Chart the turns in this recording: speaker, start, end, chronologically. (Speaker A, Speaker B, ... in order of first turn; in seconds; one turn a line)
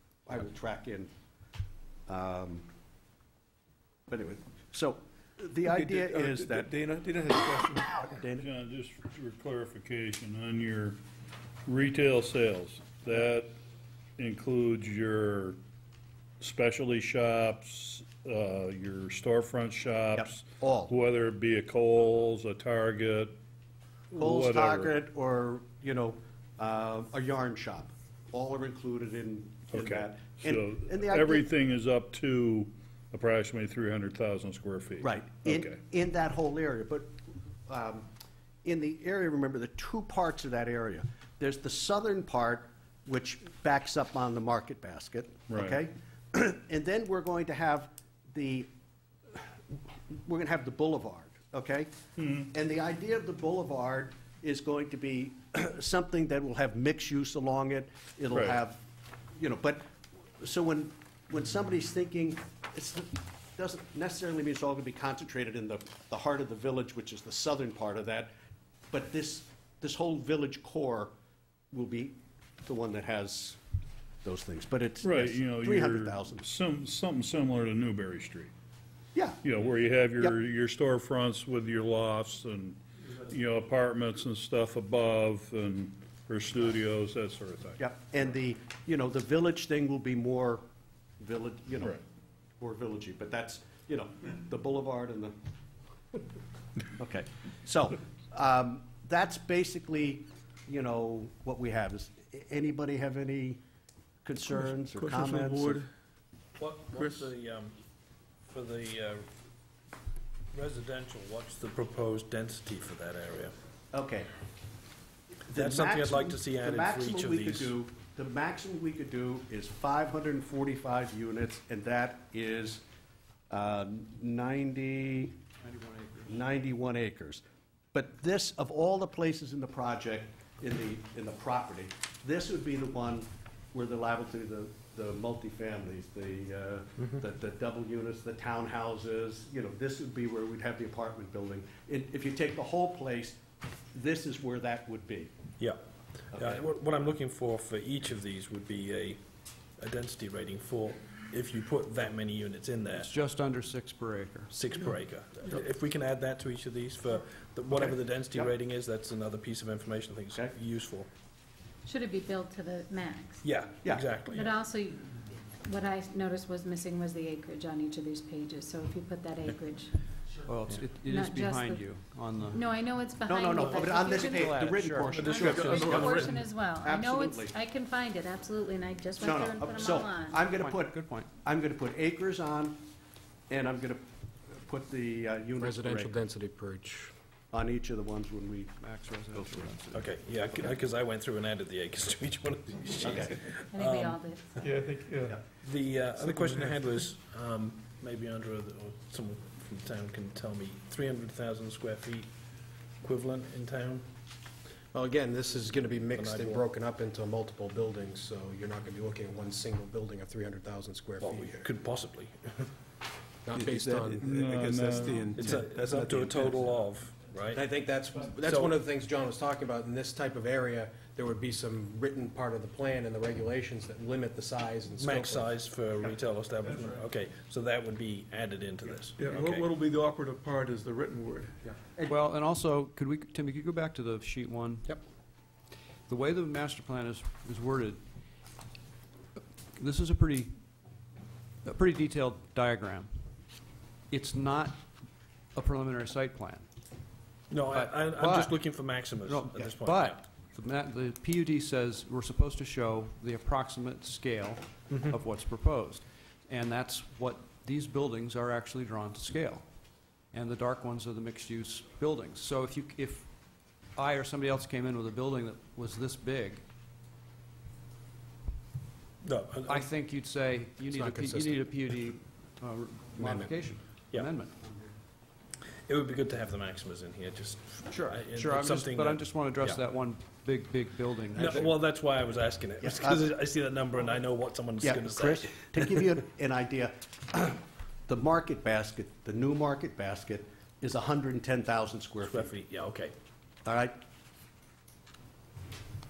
Speaker A: 0.3-1.1
Speaker A: 2.1-2.7
Speaker A: 4.1-6.8
Speaker B: 5.7-8.0
Speaker A: 7.6-8.5
Speaker C: 8.3-11.0
Speaker C: 11.7-13.5
Speaker C: 14.2-15.6
Speaker C: 16.4-23.4
Speaker A: 20.1-20.9
Speaker C: 24.1-24.9
Speaker A: 24.2-31.5
Speaker C: 29.7-35.8
Speaker A: 35.0-37.1
Speaker A: 37.7-38.1
Speaker A: 38.6-48.7
Speaker C: 45.5-45.8
Speaker A: 49.3-51.9
Speaker C: 52.2-52.5
Speaker A: 52.5-58.8
Speaker C: 58.3-58.6
Speaker A: 59.4-59.8
Speaker A: 60.4-68.3
Speaker A: 68.9-71.1
Speaker A: 71.7-73.6
Speaker A: 74.2-76.5
Speaker C: 75.0-78.5
Speaker A: 79.2-79.5
Speaker C: 79.4-87.8
Speaker A: 87.8-90.6
Speaker A: 91.2-92.0
Speaker A: 92.6-95.4
Speaker A: 97.0-103.6
Speaker A: 104.2-105.8
Speaker B: 104.9-105.8
Speaker D: 106.6-107.7
Speaker B: 107.0-107.2
Speaker D: 108.5-109.3
Speaker D: 110.5-113.5
Speaker A: 113.9-114.3
Speaker A: 115.5-122.8
Speaker D: 115.5-117.7
Speaker A: 123.5-125.4
Speaker E: 125.6-126.3
Speaker A: 126.3-127.4
Speaker A: 127.9-143.4
Speaker A: 143.9-145.3
Speaker D: 146.3-149.2
Speaker A: 146.3-146.6
Speaker D: 149.8-153.2
Speaker E: 153.0-154.5
Speaker D: 154.5-161.1
Speaker F: 161.8-163.4
Speaker D: 163.4-164.5
Speaker A: 163.8-164.1
Speaker F: 164.2-169.9
Speaker E: 170.5-172.6
Speaker F: 171.0-171.8
Speaker F: 172.5-174.6
Speaker A: 173.3-177.6
Speaker E: 174.2-175.7
Speaker F: 175.1-180.5
Speaker B: 175.4-176.4
Speaker A: 179.2-182.8
Speaker E: 180.4-181.3
Speaker A: 183.5-186.2
Speaker G: 185.6-187.1
Speaker A: 187.5-189.7
Speaker E: 188.8-190.6
Speaker D: 189.9-194.6
Speaker A: 193.0-193.3
Speaker F: 193.7-194.4
Speaker B: 194.6-195.4
Speaker D: 195.6-202.3
Speaker B: 196.2-196.8
Speaker D: 203.0-204.1
Speaker G: 204.9-211.7
Speaker D: 206.1-206.7
Speaker D: 211.2-212.7
Speaker G: 213.4-214.3
Speaker B: 213.6-216.7
Speaker C: 214.2-215.4
Speaker D: 215.3-217.7
Speaker G: 217.5-225.5
Speaker D: 218.4-218.8
Speaker D: 225.0-229.7
Speaker B: 229.2-231.7
Speaker E: 232.1-235.0
Speaker E: 236.1-238.0
Speaker E: 239.8-240.6
Speaker E: 241.6-243.1
Speaker E: 244.1-244.8
Speaker E: 245.5-246.7
Speaker D: 247.5-250.2
Speaker E: 247.7-259.7
Speaker E: 260.3-266.6
Speaker D: 269.2-269.9
Speaker E: 269.7-274.9
Speaker D: 275.8-279.8
Speaker E: 277.9-281.8
Speaker D: 281.3-286.1
Speaker A: 282.8-283.2
Speaker A: 284.8-292.5
Speaker D: 292.2-293.1
Speaker A: 293.6-294.0